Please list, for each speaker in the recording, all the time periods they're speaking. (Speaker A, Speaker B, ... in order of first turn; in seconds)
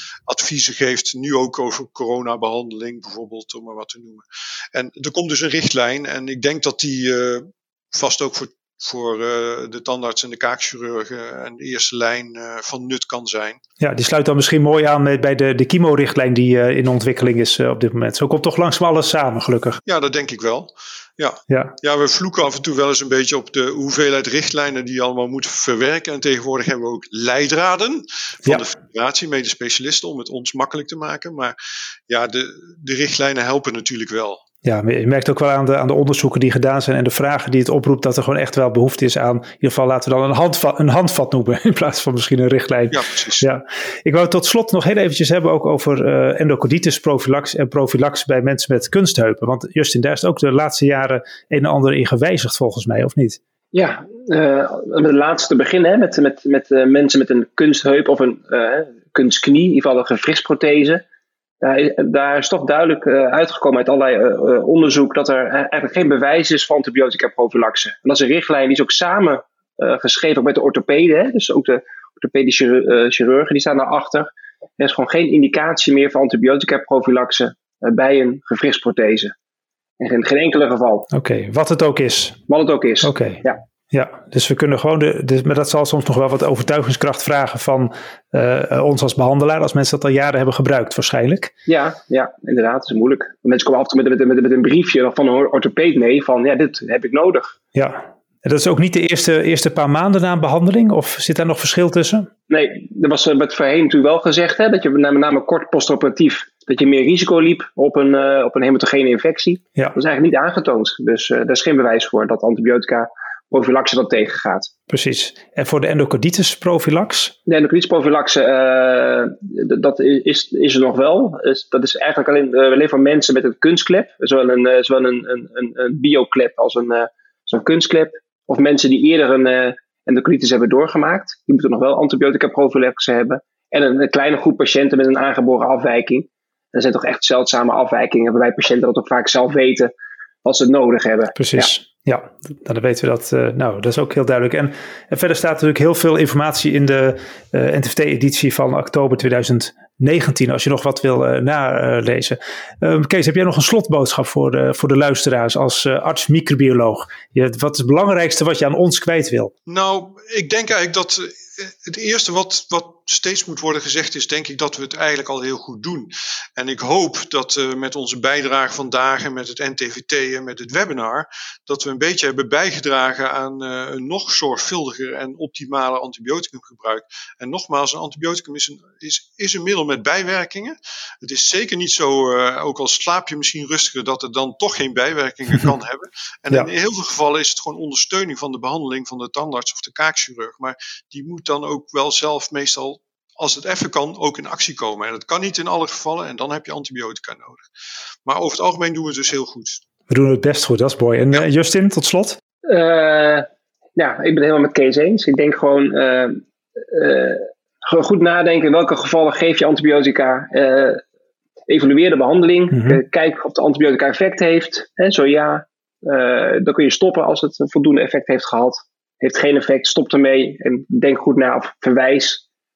Speaker A: 0.3-13.6, 19.9-31.5, 32.1-34.4, 42.9-43.5, 159.7-197.6, 198.2-199.8
Speaker B: 13.8-19.8, 21.5-21.7, 34.6-53.4, 81.1-82.4, 83.0-91.5, 97.7-102.3, 114.9-117.3, 141.4-159.5, 200.1-202.4, 212.7-213.0
Speaker C: 53.7-61.0, 61.6-79.3, 80.0-81.1, 82.5-83.6, 91.7-97.5, 102.5-114.7, 117.5-139.9, 140.4-141.7, 202.6-211.0, 211.7-222.4